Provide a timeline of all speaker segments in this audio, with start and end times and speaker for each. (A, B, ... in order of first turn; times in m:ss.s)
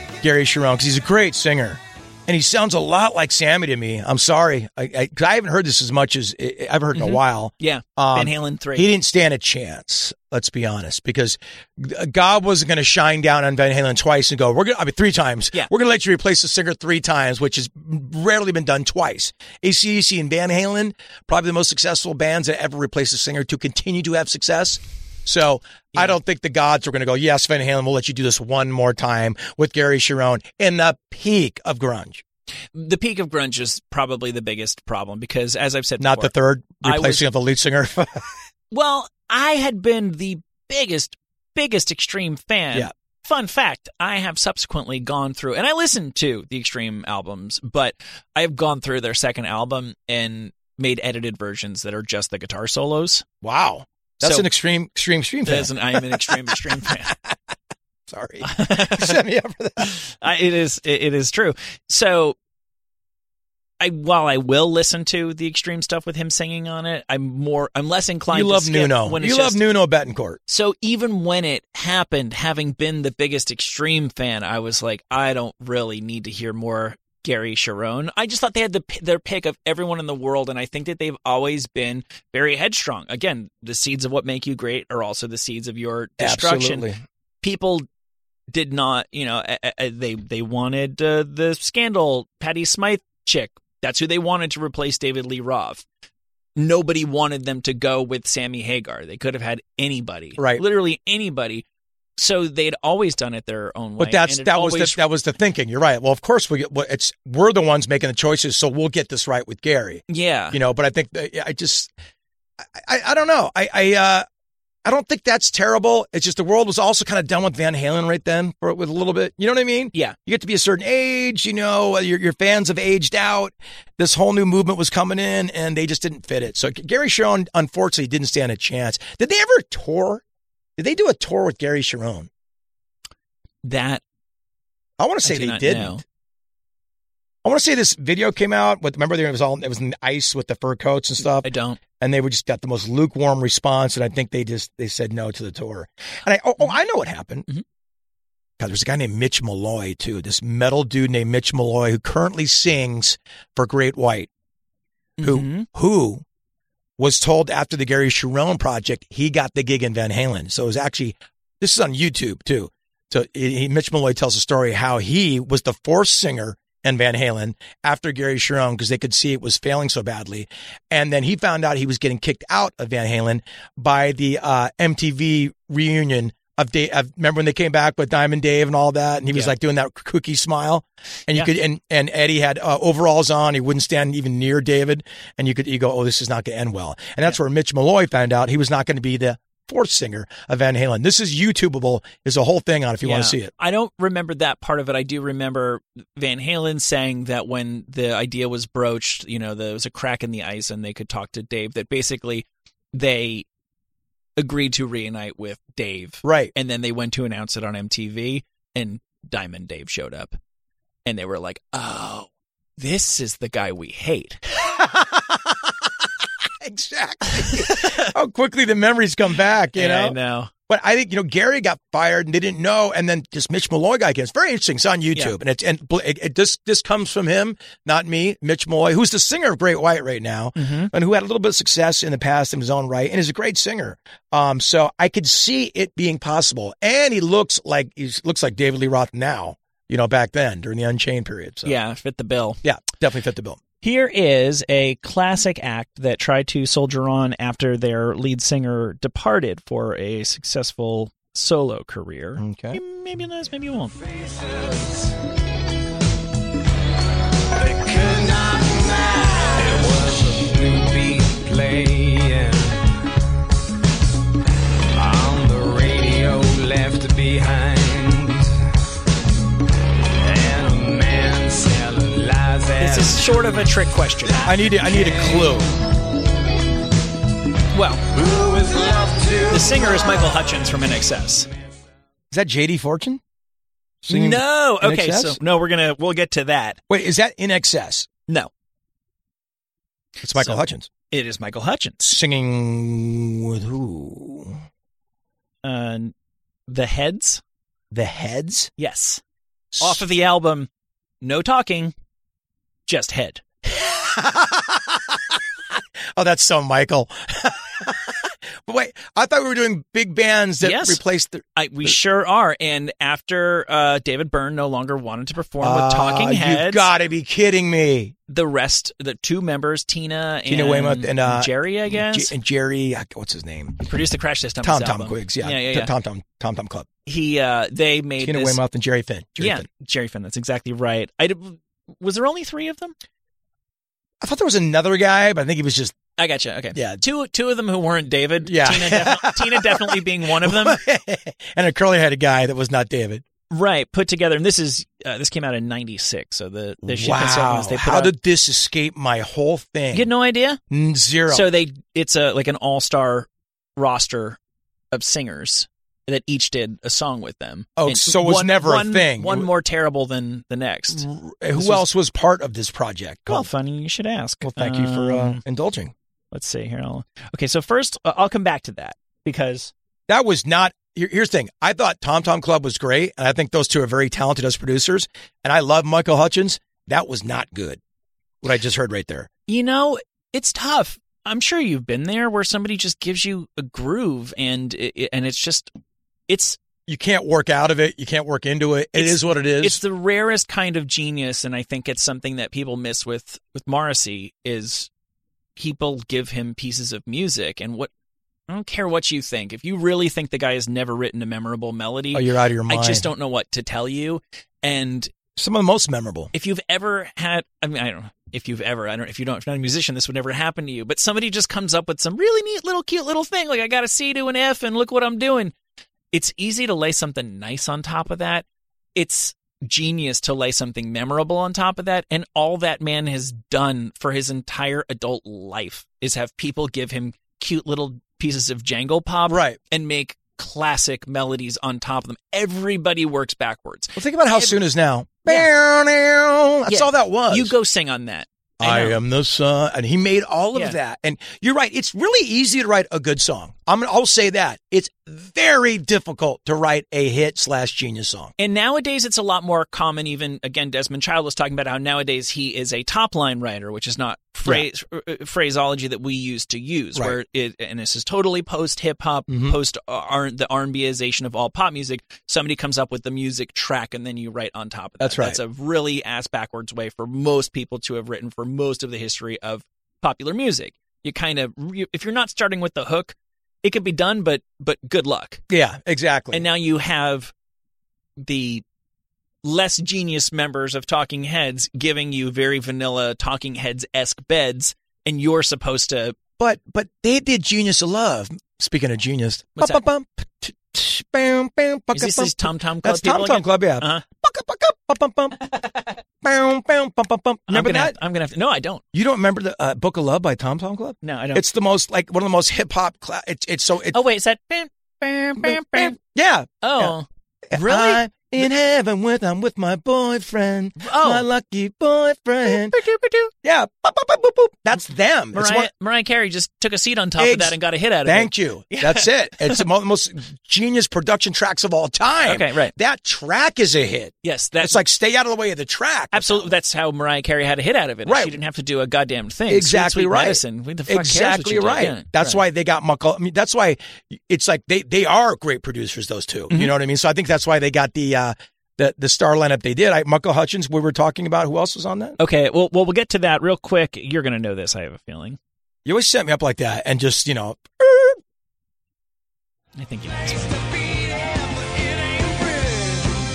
0:00.2-0:32.2 A
0:06.9-0:08.9 B
0:32.7-0:37.2 B
0:36.0-0:38.3 A
0:38.7-0:53.2 B
0:53.4-0:57.1 A
0:54.2-0:54.5 B
0:55.4-0:57.1 B
0:58.1-0:59.9 A
0:58.4-0:59.2 B
0:59.8-1:02.4 B
1:03.8-1:09.6 B
1:08.3-1:10.4 A
1:10.5-1:26.8 B
1:26.2-1:27.0 A
1:27.4-1:27.9 B
1:28.5-1:35.8 B
1:36.6-1:41.6 B
1:40.4-1:40.6 A
1:42.2-1:45.0 B
1:44.0-1:51.9 A
1:50.1-1:50.6 B
1:52.6-1:54.2 A
1:54.8-2:10.2 A
2:10.8-2:12.3 A
2:13.6-2:14.0 B
2:15.0-2:16.0 A
2:15.2-2:16.0 B
2:17.4-2:27.4 A
2:21.2-2:21.8 B
2:28.6-2:34.3 A
2:35.2-2:35.7 B
2:35.2-2:36.2 A
2:37.0-3:13.5 A
3:13.0-3:23.4 B
3:24.4-3:30.4 B
3:26.2-3:26.5 A
3:31.0-3:34.4 B
3:34.5-3:40.2 A
3:37.4-3:38.1 B
3:39.7-3:40.5 B
3:40.7-4:01.7 A
3:50.6-3:50.9 B
4:01.6-4:02.6 B
4:02.6-4:03.6 A
4:03.8-4:14.0 B
4:12.4-4:12.8 A
4:14.0-4:15.1 C
4:17.5-4:22.8 C
4:24.9-4:28.6 C
4:30.2-4:33.3 C
4:32.8-4:34.4 B
4:34.2-4:35.6 C
4:34.4-4:35.7 A
4:37.7-4:38.0 B
4:38.1-4:40.3 C
4:39.5-4:41.5 B
4:42.3-4:43.2 A
4:44.0-4:45.4 A
4:44.1-4:46.8 B
4:46.9-4:48.1 A
4:50.2-4:50.9 A
4:50.3-4:52.2 B
4:52.0-4:54.6 A
4:55.6-4:56.1 B
4:56.7-4:57.4 B
4:57.9-4:58.7 A
4:58.8-4:59.2 B
4:59.7-5:00.0 A
4:59.8-5:00.7 B
5:01.2-5:01.9 B
5:02.9-5:03.4 B
5:03.6-5:11.4 A
5:10.6-5:11.0 B
5:11.6-5:16.9 B
5:15.6-5:18.1 A
5:18.3-5:22.3 B
5:20.5-5:23.8 A
5:23.8-5:25.9 B
5:24.6-5:26.9 A
5:27.0-5:28.6 B
5:28.2-5:29.6 A
5:29.4-5:32.9 B
5:34.2-5:36.0 A
5:36.2-5:40.8 B
5:36.7-5:37.0 A
5:38.4-5:43.2 A
5:43.5-5:48.1 B
5:46.8-5:50.1 A
5:49.9-5:50.6 B
5:50.7-5:51.5 A
5:51.3-5:54.4 B
5:54.9-6:01.8 B
5:57.8-5:59.5 A
6:00.9-6:03.5 A
6:03.3-6:05.4 B
6:04.4-6:05.9 A
6:06.3-6:09.7 B
6:10.1-6:17.8 A
6:18.4-6:19.3 A
6:19.5-6:25.7 B
6:26.3-6:26.6 B
6:26.9-6:29.8 A
6:28.9-6:34.9 B
6:35.6-6:37.9 B
6:38.5-6:45.1 B
6:42.1-6:43.1 A
6:45.4-6:46.3 A
6:46.3-6:55.5 B
6:56.1-7:14.6 B
7:09.3-7:09.6 A
7:14.0-7:17.5 A
7:16.7-7:19.0 B
7:18.6-7:28.3 A
7:28.4-7:55.4 B
7:39.3-7:39.6 A
7:45.0-7:45.4 A
7:55.5-7:56.4 A
7:56.3-7:57.3 B
7:58.2-7:58.6 B
7:59.4-8:06.2 B
8:06.4-8:15.4 A
8:11.9-8:14.0 B
8:15.4-8:16.0 B
8:16.2-8:17.9 A
8:17.5-8:18.8 B
8:18.9-8:24.0 A
8:21.0-8:21.4 B
8:23.9-8:26.0 B
8:25.4-8:26.9 A
8:26.6-8:28.0 B
8:27.5-8:32.8 A
8:30.8-8:31.2 B
8:32.4-8:33.3 B
8:33.4-8:35.7 A
8:35.3-8:39.6 B
8:37.2-8:46.5 A
8:42.2-8:42.7 B
8:44.2-8:44.8 B
8:46.1-8:52.4 B
8:48.0-8:48.4 A
8:49.5-9:02.2 A
9:02.2-9:05.4 B
9:05.8-9:08.2 A
9:09.8-9:10.6 B
9:10.5-9:13.2 C